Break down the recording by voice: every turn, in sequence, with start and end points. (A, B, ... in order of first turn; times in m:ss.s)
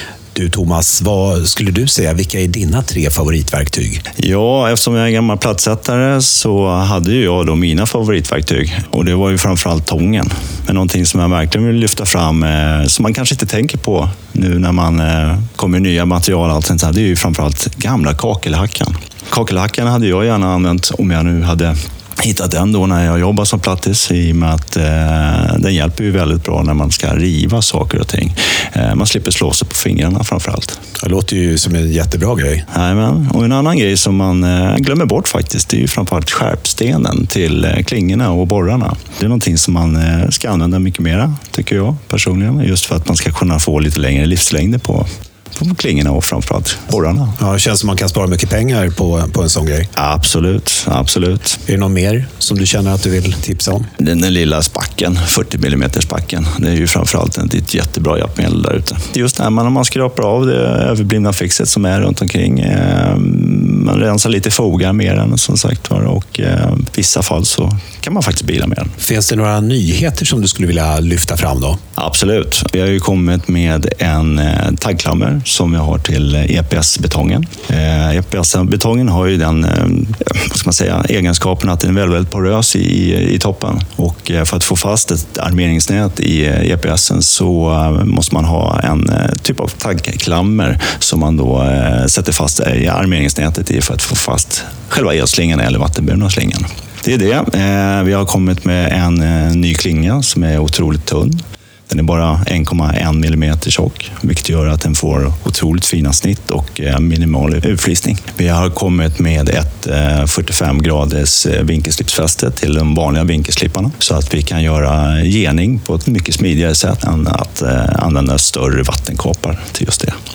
0:00.3-0:04.0 A
0:04.2-0:30.8 B
0:31.0-0:32.6 A
0:32.7-0:47.3 B
0:47.4-0:49.9 A
0:50.0-0:51.6 B
0:51.7-0:53.9 A
0:54.0-1:08.9 B
1:09.0-1:11.8 A
1:12.0-2:00.2 B